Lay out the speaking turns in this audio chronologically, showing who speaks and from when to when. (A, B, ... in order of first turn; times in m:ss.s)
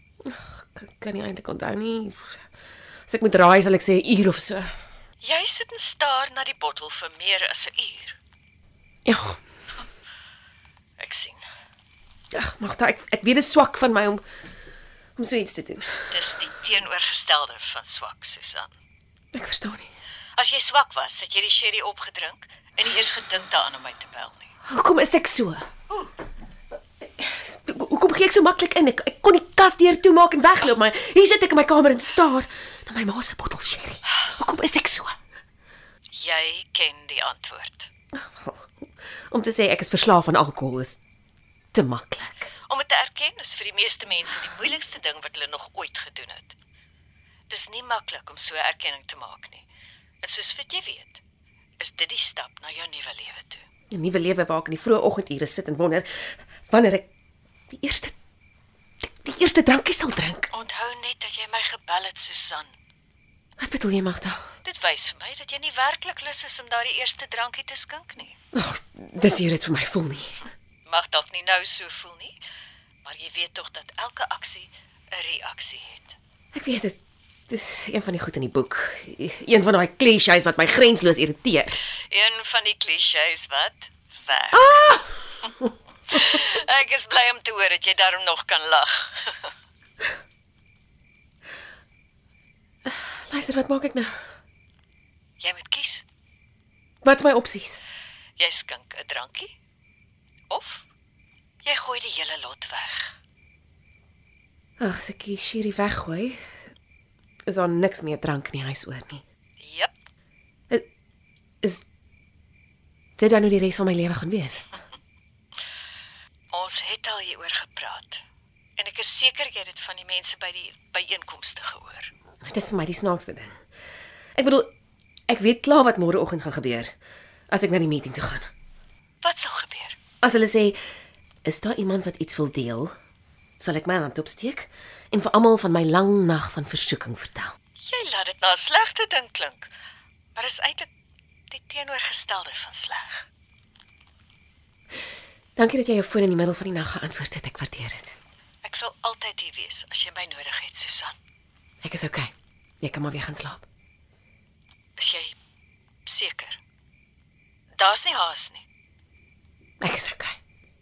0:00.2-0:02.4 A
0:03.1-0:04.7 A
0:05.2-0:08.2 B
0:09.0-0:09.4 A
0:11.0-0:11.4 B
0:12.3-0:14.2 A
0:15.2-0:16.1 A
0:16.1-0:18.7 B
0:19.3-0:19.9 A
0:20.4-0:24.5 B
0:24.6-0:25.6 A
0:27.2-0:35.1 A
0:36.1-0:37.9 B
0:38.1-0:38.7 A
0:39.3-0:41.0 A
0:41.7-0:42.5 A
0:42.6-0:46.6 B
0:47.5-0:49.6 B
0:50.2-0:51.2 B
0:51.8-0:53.6 B
0:53.9-0:57.1 A
0:57.7-0:58.1 A
0:59.0-1:00.5 A
1:00.5-1:02.7 B
1:03.6-1:04.5 A
1:04.6-1:08.4 B
1:08.5-1:10.5 A
1:10.9-1:12.4 B
1:13.0-1:16.1 B
1:16.5-1:17.0 A
1:17.5-1:21.8 A
1:22.1-1:29.5 B
1:32.9-1:34.1 A
1:35.4-1:36.0 B
1:37.0-1:37.8 A
1:38.4-1:39.5 B
1:40.5-1:40.8 B
1:41.6-1:43.1 B
1:44.8-1:46.5 A
1:47.5-1:49.2 A
1:49.6-1:49.9 B
1:53.2-1:54.6 A
1:56.5-1:58.2 B
1:58.8-2:02.1 B
2:02.4-2:03.6 A
2:04.4-2:04.7 A
2:05.3-2:06.9 A
2:07.5-2:08.5 A
2:09.2-2:10.0 B
2:10.2-2:10.8 A
2:11.4-2:12.9 A
2:13.6-2:17.5 A
2:17.8-2:19.7 B
2:20.4-2:20.9 B
2:21.5-2:23.2 B
2:25.6-2:28.1 A
2:28.6-2:31.1 B
2:31.8-2:32.3 A
2:32.8-2:33.6 A
2:35.0-2:35.4 B
2:36.1-2:36.6 B
2:37.8-2:38.6 B
2:39.8-2:40.4 A